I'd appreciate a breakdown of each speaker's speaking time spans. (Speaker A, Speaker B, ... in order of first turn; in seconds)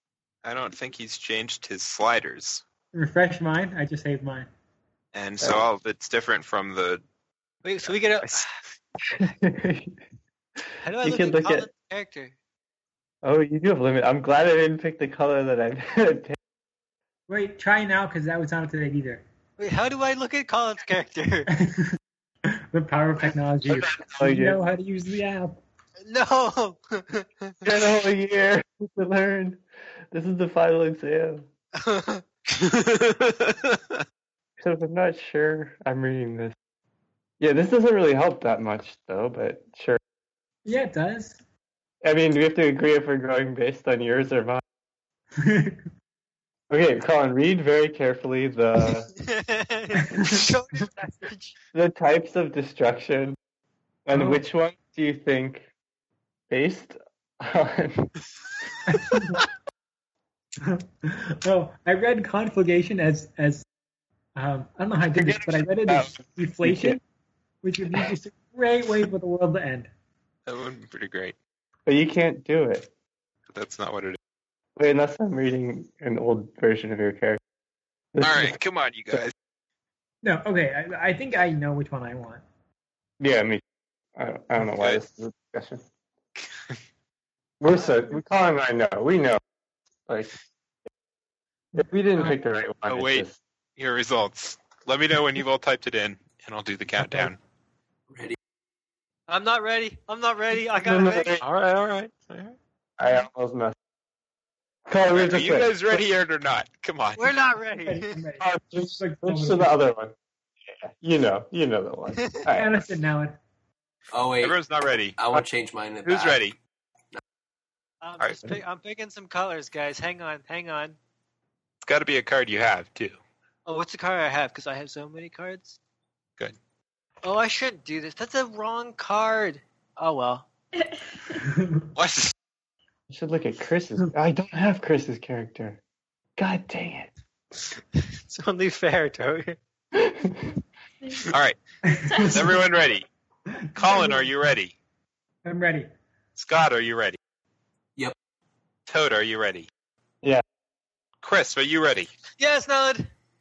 Speaker A: 0.4-2.6, 5.1-7.0, 32.5-33.8, 70.5-71.3, 73.5-74.2, 78.2-79.3, 84.7-85.0, 86.4-86.7, 92.9-93.2, 93.8-97.4, 101.4-102.5, 105.1-107.3, 114.4-115.4, 116.0-116.5, 118.2-118.5, 121.8-123.2, 131.9-132.3, 141.3-141.6, 142.2-143.1, 143.8-144.7, 146.3-147.2, 148.9-149.7, 151.2-152.1
Speaker B: 2.9-4.5, 17.3-19.2, 21.5-21.9, 22.5-25.6, 40.6-41.4, 45.4-45.8, 50.1-50.4, 54.1-54.4, 58.9-59.4, 60.6-63.6, 64.3-67.0, 67.6-69.9, 80.2-82.4, 91.7-92.3, 107.8-109.7, 112.5-113.4, 131.4-131.9, 141.8-142.6, 143.5-144.3, 145.4-145.9
Speaker C: 7.6-8.5, 10.8-12.3, 19.6-21.5, 26.0-27.6, 31.8-32.2, 49.2-51.5, 99.3-101.4, 107.2-108.1, 118.0-121.0, 123.7-125.8, 127.2-130.5, 138.0-139.6, 152.4-153.1
Speaker D: 9.1-10.0, 11.0-11.7, 13.2-16.4, 23.7-24.6, 27.6-31.5, 34.6-36.5, 37.4-40.0, 42.0-44.6, 46.7-49.1, 51.7-53.4, 54.0-55.7, 56.5-58.1, 65.2-67.0, 71.8-72.9, 74.8-77.4, 78.1-78.5, 83.2-83.6, 84.2-85.8, 87.6-89.4, 90.1-90.3, 91.8-93.4, 97.0-97.3, 100.8-101.4, 103.0-103.7, 104.9-106.0, 108.4-110.1, 110.7-112.8, 133.1-135.8, 136.4-137.1, 139.9-140.5
Speaker E: 98.1-98.4, 114.1-114.6, 115.2-116.4